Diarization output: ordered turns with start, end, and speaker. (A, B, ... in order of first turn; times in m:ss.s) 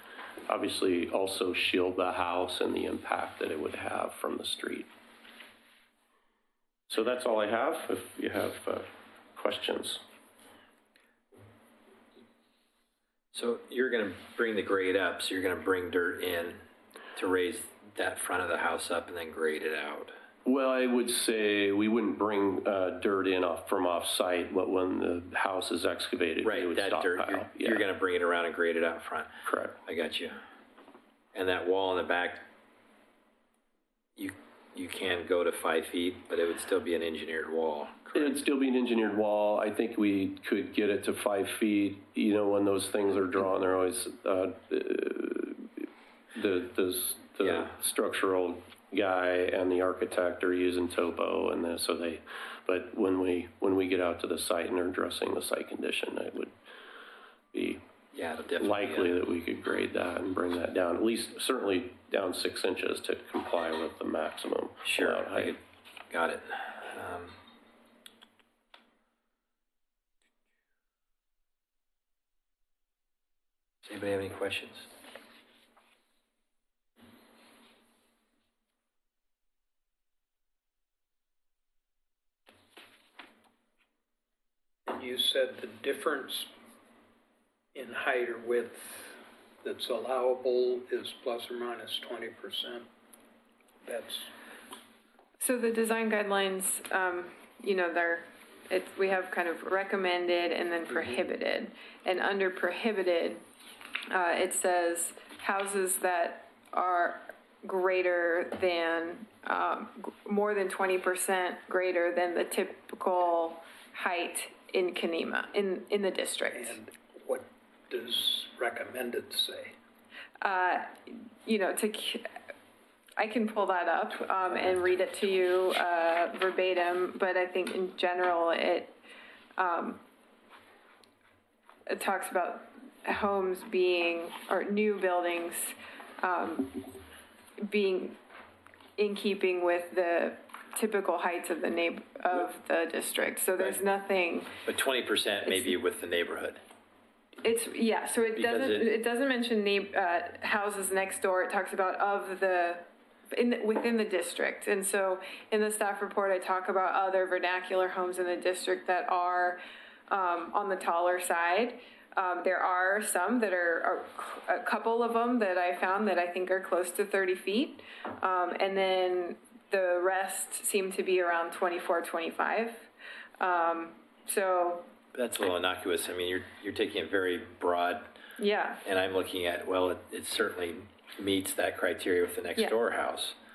0:00.5-0:04.9 A
0:06.9-0:10.0 A
0:13.3-0:16.6 B
0:17.1-0:20.1 B
0:20.4-0:27.8 A
0:26.4-0:30.4 B
0:29.4-0:29.8 A
0:31.3-0:32.4 B
0:34.2-0:38.4 B
0:38.1-0:56.5 A
0:47.4-0:47.7 B
0:57.5-0:57.8 A
0:58.1-0:59.2 B
0:58.6-1:05.6 A
1:04.8-1:07.4 B
1:13.8-1:14.9 B
1:24.8-1:26.5 C
1:27.7-1:32.9 C
1:33.8-1:34.3 C
1:35.4-1:43.4 D
1:44.1-1:56.8 D
1:56.5-1:59.7 C
2:00.4-2:02.3 D
2:03.2-2:09.0 D
2:09.6-2:10.0 D
2:11.9-2:16.9 D
2:17.6-2:18.2 D
2:19.0-2:24.5 D
2:24.6-2:26.6 B
2:25.5-2:25.7 D
2:27.4-2:52.9 D
2:28.4-2:28.9 B
2:53.4-2:54.9 D
2:55.1-2:58.1 B
2:58.4-2:58.8 D
2:58.8-3:03.4 B